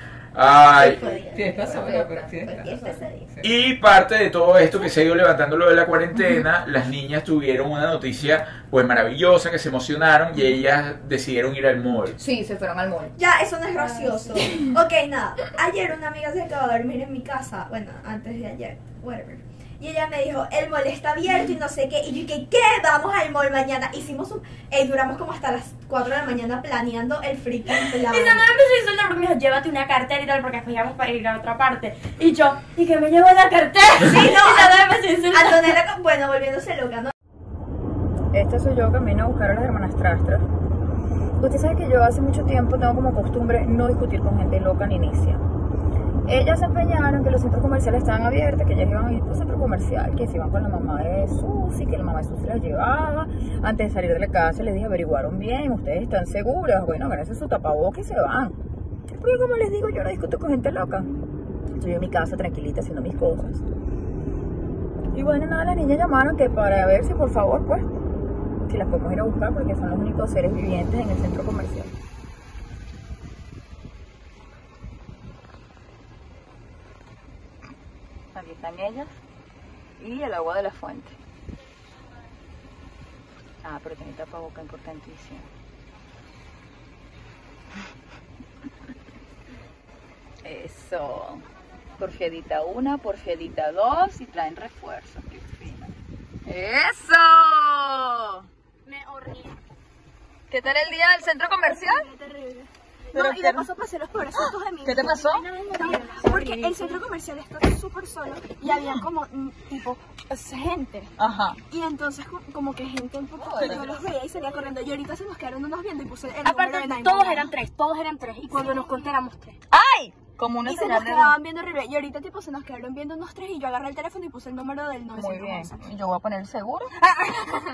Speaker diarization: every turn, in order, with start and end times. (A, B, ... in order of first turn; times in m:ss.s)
0:00.3-0:01.0 A
0:00.7-0:01.9 B
0:01.3-0:03.5 C
0:01.6-0:02.4 D
0:02.4-0:03.3 B
0:03.4-0:12.2 A
0:12.2-0:13.1 D
0:13.2-0:28.4 B
0:13.8-0:14.7 E
0:27.8-0:35.8 E
0:34.0-0:37.1 B
0:38.3-0:40.5 D
0:41.4-0:45.4 D
0:46.3-0:58.6 D
0:59.2-1:01.1 D
1:01.8-1:03.6 D
1:05.1-1:08.0 D
1:08.7-1:11.9 D
1:18.3-1:19.1 D
1:20.0-1:21.1 D
1:23.6-1:25.5 D
1:30.4-1:31.4 D
1:32.0-1:35.9 D
1:36.5-1:38.5 D
1:38.9-1:39.5 E
1:40.5-1:42.1 D
1:41.6-1:51.1 B
1:43.1-1:43.7 D
1:44.8-1:45.5 D
1:45.7-1:46.3 E
1:51.2-1:51.6 D
1:51.7-1:57.5 B
1:53.4-1:53.8 D
1:56.4-1:59.6 E
1:58.5-1:59.1 B
1:59.7-2:01.4 D
2:00.6-2:05.9 B
2:05.1-2:06.9 D
2:07.0-2:07.6 B